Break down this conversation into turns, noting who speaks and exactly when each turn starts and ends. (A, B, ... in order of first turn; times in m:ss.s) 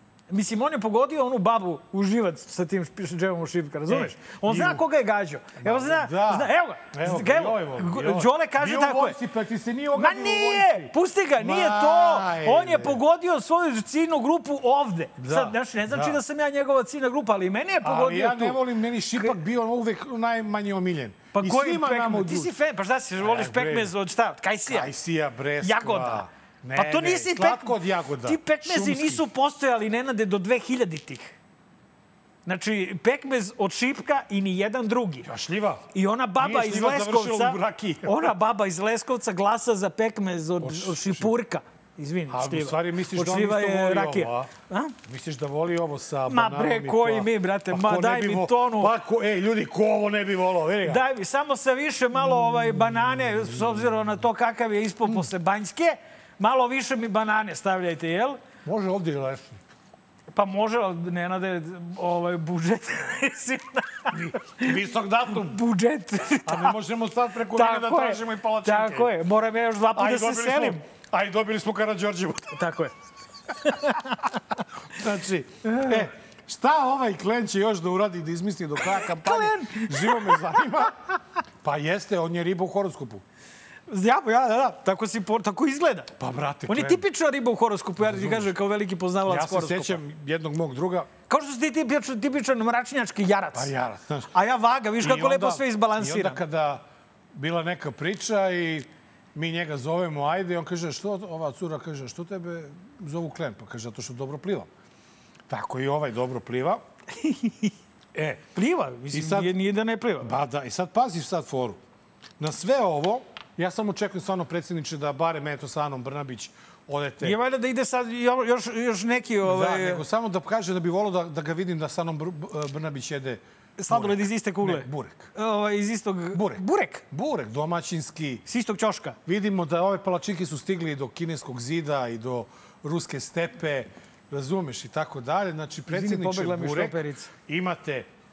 0:00.3-0:09.2 A
0:03.9-0:04.8 B
0:05.6-0:13.0 B
0:09.9-0:18.6 A
0:15.2-0:16.2 B
0:17.8-0:22.5 B
0:21.4-0:24.9 A
0:23.2-0:23.9 B
0:24.7-0:29.3 B
0:25.6-0:31.3 A
0:32.5-0:35.3 A
0:35.2-0:38.3 B
0:35.9-0:44.9 A
0:40.6-0:41.3 B
0:42.3-0:44.5 B
0:45.0-0:51.0 B
0:46.3-0:48.9 A
0:50.8-0:58.4 A
0:58.6-0:59.6 B
1:00.3-1:04.8 A
1:04.1-1:05.6 B
1:05.3-1:06.8 A
1:06.5-1:09.1 B
1:07.5-1:10.8 A
1:09.9-1:12.6 B
1:12.5-1:12.9 A
1:13.6-1:14.3 A
1:14.9-1:21.0 B
1:15.6-1:16.1 A
1:19.2-1:20.4 A
1:21.6-1:23.2 B
1:23.9-1:26.1 A
1:26.2-1:27.0 B
1:26.7-1:30.0 A
1:28.0-1:28.5 B
1:29.3-1:31.1 B
1:31.3-1:33.7 A
1:33.5-1:34.3 B
1:34.3-1:36.4 A
1:35.0-1:44.7 B
1:45.5-1:46.8 B
1:47.2-1:47.7 A
1:48.1-1:48.4 B
1:48.6-1:50.4 A
1:49.1-1:49.5 B
1:50.2-1:51.8 B
1:52.4-1:57.4 B
1:57.2-2:00.0 A
1:59.4-2:05.3 B
2:03.8-2:07.0 A
2:06.3-2:08.4 B
2:08.5-2:09.2 A
2:09.3-2:18.1 B
2:15.9-2:17.3 A